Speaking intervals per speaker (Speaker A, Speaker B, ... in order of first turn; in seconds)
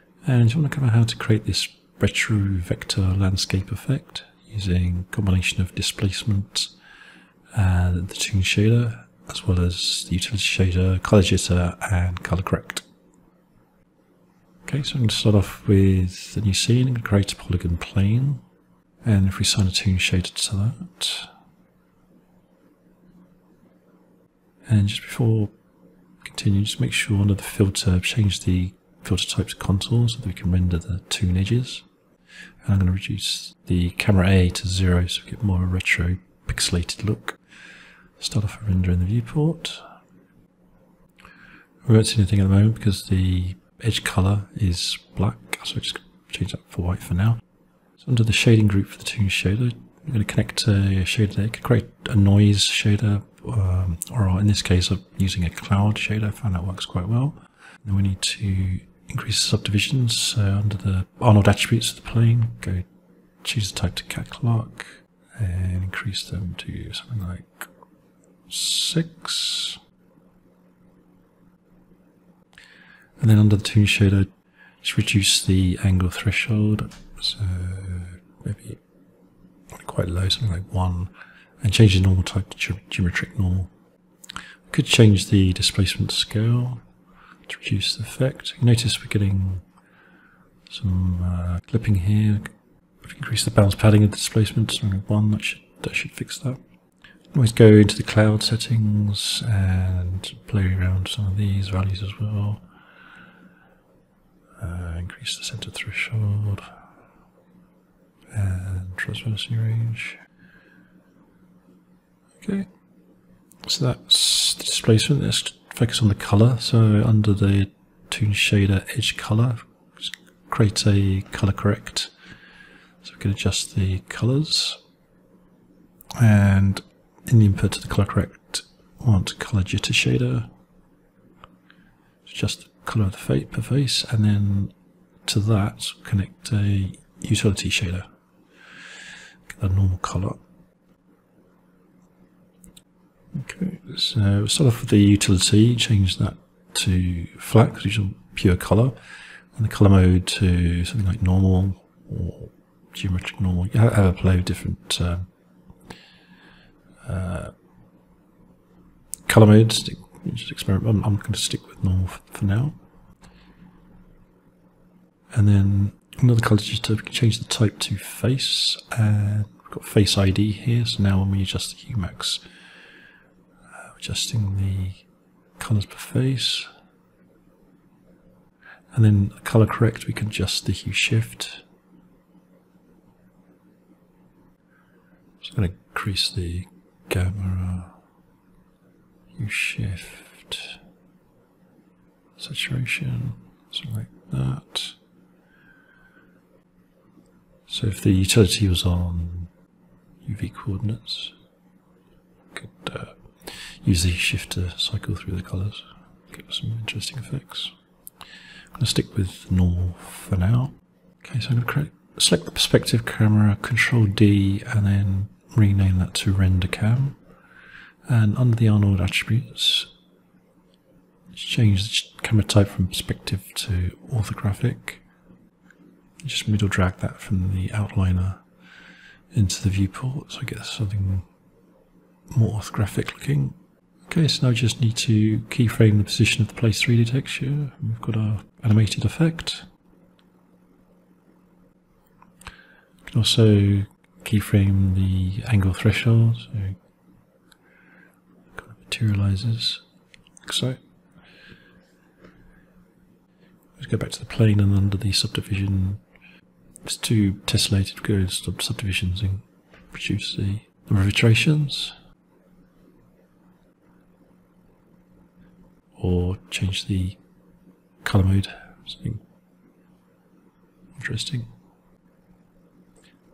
Speaker A: 0.2-6.7, 7.5-12.8, 14.7-18.4, 19.0-21.3, 24.6-25.5, 26.2-31.8, 32.6-37.4, 38.2-39.9, 41.8-47.4, 48.0-62.9, 63.4-67.7, 68.5-69.8, 73.2-74.3, 74.8-78.8, 79.7-83.7, 84.7-86.8, 87.5-89.6, 90.7-96.6, 97.3-102.6, 104.6-106.7, 108.3-110.2, 112.4-112.7, 113.6-122.1, 123.0-124.8, 126.2-130.5, 132.2-134.7, 135.2-138.1, 139.5-140.4, 143.3-149.0, 149.5-155.3, 157.0-157.5, 159.3-162.8, 165.3-172.5, 173.8-175.0, 175.6-176.7, 178.9-181.6, 185.4-187.9, 189.3-190.8, 192.4-195.0, 197.7-199.5, 200.2-201.3, 202.5-207.7, 208.7-217.2, 218.1-219.9, 221.3-225.0, 226.2-228.4, 229.3-231.2, 232.3-233.6, 234.1-239.7, 243.1-246.8, 248.5-249.8, 250.4-250.8, 253.8-256.0, 256.8-261.9, 266.0-267.2, 268.0-269.2, 271.0-271.5